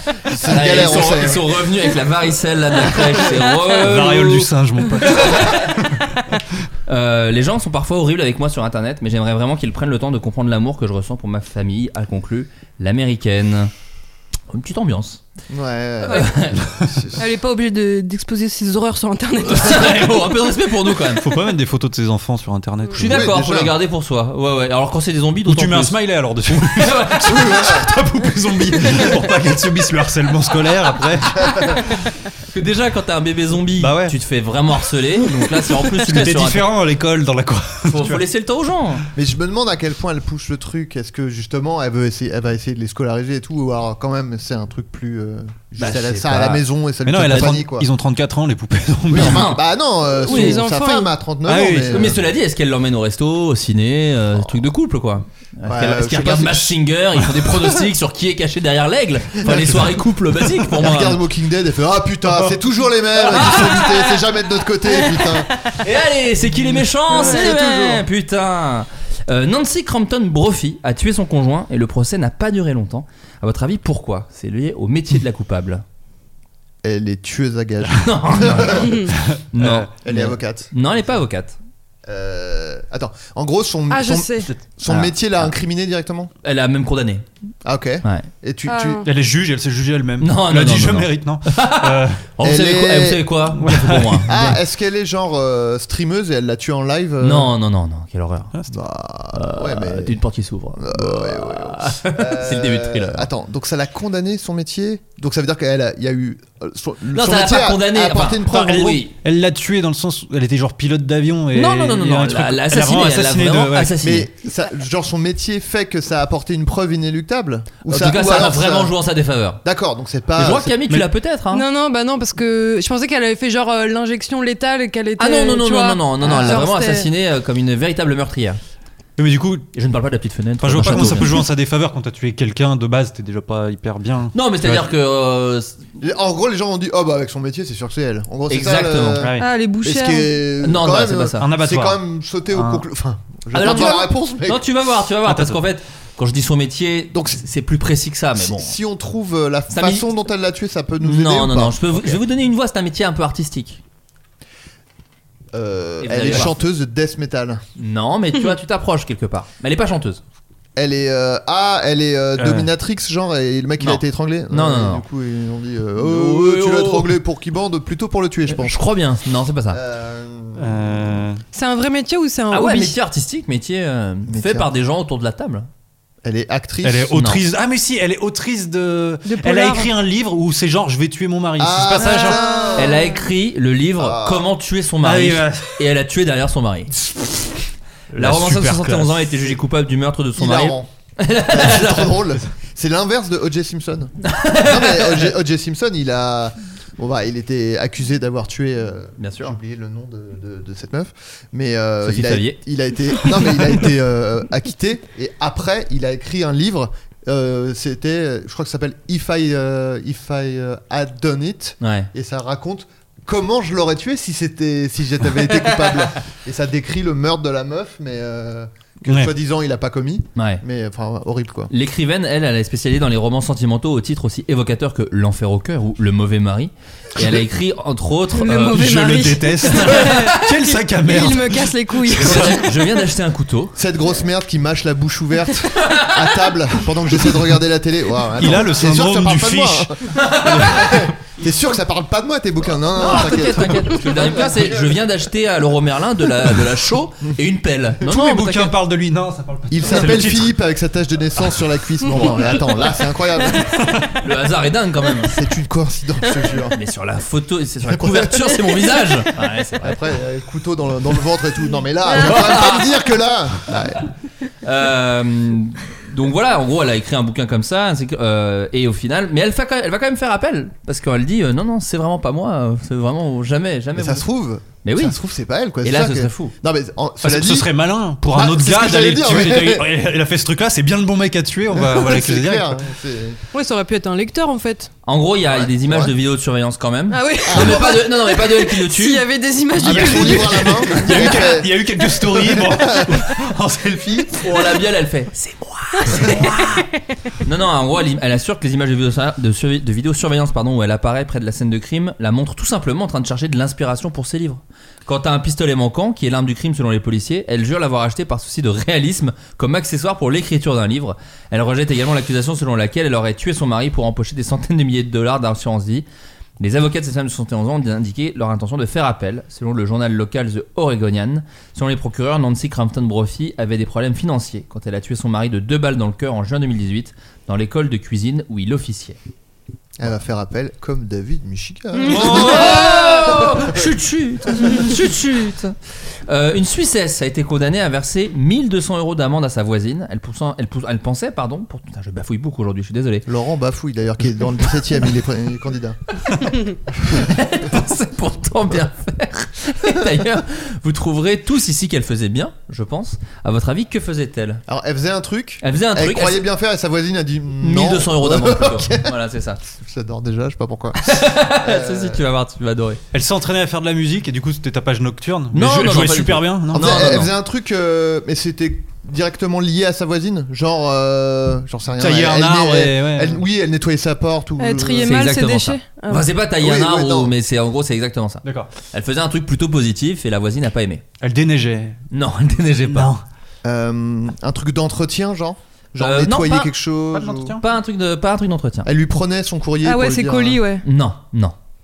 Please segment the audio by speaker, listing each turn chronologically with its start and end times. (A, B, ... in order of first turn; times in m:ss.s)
0:00.3-0:01.6 A
0:00.3-0:04.5 B
0:03.7-0:06.4 C
0:05.0-0:05.7 B
0:06.9-0:13.7 B
0:14.5-0:15.2 B
0:15.5-0:17.2 A
0:16.0-0:16.7 B
0:17.2-0:20.0 D
0:19.4-0:21.3 B
0:21.0-0:23.3 C
0:22.9-0:27.5 B
0:23.0-0:23.7 A
0:25.4-0:31.8 C
0:27.3-0:27.9 A
0:32.5-0:36.7 B
0:33.8-0:34.2 C
0:35.2-0:38.2 C
0:37.9-0:39.0 B
0:39.1-0:47.9 A
0:45.8-0:46.6 B
0:47.0-0:49.5 C
0:49.1-0:49.6 B
0:49.1-0:52.2 A
0:50.2-0:51.1 D
0:50.3-0:50.6 B
0:51.4-0:52.2 C
0:51.9-1:01.2 B
0:55.6-0:56.8 A
0:59.4-0:59.9 A
1:00.7-1:05.5 A
1:03.3-1:04.0 B
1:05.3-1:05.7 D
1:05.7-1:15.8 B
1:07.1-1:08.0 D
1:16.8-1:19.1 A
1:17.9-1:21.6 B
1:19.3-1:19.9 C
1:20.0-1:21.0 A
1:22.1-1:26.3 A
1:23.9-1:24.5 D
1:24.8-1:25.5 B
1:26.4-1:27.2 B
1:27.6-1:29.0 A
1:28.6-1:29.0 D
1:29.0-1:32.2 C
1:30.2-1:34.3 B
1:32.4-1:33.4 A
1:33.6-1:34.6 C
1:34.3-1:37.5 A
1:37.2-1:38.5 B
1:38.7-1:40.2 A
1:39.3-1:43.3 B
1:40.8-1:49.0 A
1:47.1-1:49.1 B
1:48.5-1:54.0 C
1:51.5-1:54.3 B
1:54.0-1:58.9 A
1:57.8-1:59.6 B
1:59.6-2:00.7 A
2:00.4-2:01.6 B
2:01.5-2:07.1 D
2:05.2-2:08.6 B
2:06.2-2:06.7 A
2:09.2-2:09.6 C
2:09.7-2:11.4 B
2:10.6-2:14.9 C
2:14.3-2:15.8 B
2:16.0-2:24.6 A
2:18.5-2:19.2 B
2:19.2-2:19.4 C
2:19.4-2:20.4 D
2:20.6-2:21.4 B
2:21.4-2:22.8 C
2:23.5-2:28.8 B
2:25.2-2:25.6 C
2:27.1-2:27.4 A
2:28.4-2:32.2 A
2:29.7-2:30.1 B
2:31.0-2:33.8 B
2:35.5-2:37.6 A
2:36.0-2:36.6 B
2:37.8-2:40.2 B
2:40.8-2:48.8 A
2:42.4-2:42.7 C
2:43.8-2:45.0 B
2:46.0-2:47.2 B
2:48.5-2:49.8 B
2:49.7-2:51.2 A
2:50.6-2:51.4 C
2:51.5-2:53.0 D
2:52.5-2:55.7 B
2:54.3-2:54.7 A
2:56.2-2:57.2 A
2:56.8-3:02.7 C
2:57.1-2:57.4 B
2:59.2-2:59.9 D
3:01.6-3:03.0 A
3:02.0-3:03.2 D
3:02.8-3:06.9 B
3:04.0-3:04.5 A
3:05.0-3:05.8 C
3:08.1-3:09.2 C
3:08.2-3:12.3 B
3:10.4-3:10.9 A
3:11.5-3:41.7 A
3:14.2-3:15.3 B
3:19.2-3:19.6 B
3:22.0-3:22.6 B
3:31.8-3:32.1 B
3:39.1-3:39.3 C
3:40.4-3:40.6 B
3:41.7-3:49.0 B
3:48.3-3:52.5 D
3:48.6-3:52.7 C
3:49.8-3:50.3 B
3:52.2-3:53.8 B
3:53.8-4:05.0 A
3:55.8-3:56.2 B
3:58.4-4:01.1 C
4:00.1-4:01.0 B
4:02.9-4:08.8 B
4:08.0-4:10.6 C
4:09.7-4:13.9 A
4:14.2-4:15.4 B
4:15.2-4:16.8 A
4:16.7-4:19.9 B
4:17.8-4:18.6 A
4:19.8-4:24.1 A
4:22.1-4:22.9 B
4:24.6-4:34.2 B
4:33.9-4:37.7 A
4:34.8-4:35.2 B
4:35.8-4:36.5 B
4:37.2-4:42.8 C
4:38.3-4:39.9 A
4:41.7-4:43.4 A
4:43.5-4:44.9 D
4:45.0-4:49.2 B
4:45.5-4:46.1 A
4:47.1-4:51.4 D
4:47.4-4:47.9 A
4:49.8-4:53.3 A
4:49.8-4:54.3 C
4:53.9-4:54.3 A
4:54.4-4:56.9 B
4:56.4-4:56.6 D
4:57.4-5:16.0 B
5:16.6-5:29.2 B
5:30.0-5:33.8 A
5:32.1-5:32.8 C
5:32.1-5:35.7 B
5:36.3-5:43.3 B
5:43.3-5:46.1 A
5:47.1-5:54.6 B
5:54.7-6:02.2 A
5:55.6-5:56.4 B
5:57.6-5:59.6 B
6:01.0-6:03.0 B
6:03.1-6:07.3 C
6:05.5-6:07.3 B
6:06.7-6:15.2 A
6:12.0-6:13.4 C
6:14.6-6:16.3 D
6:15.0-6:21.0 B
6:16.6-6:17.3 A
6:18.4-6:18.7 C
6:21.2-6:22.0 C
6:22.1-6:23.1 B
6:22.8-6:23.2 C
6:23.6-6:27.6 A
6:26.0-6:26.8 B
6:27.1-6:27.6 C
6:27.6-6:28.9 B
6:28.8-6:30.6 A
6:29.8-6:30.8 D
6:30.8-6:31.5 B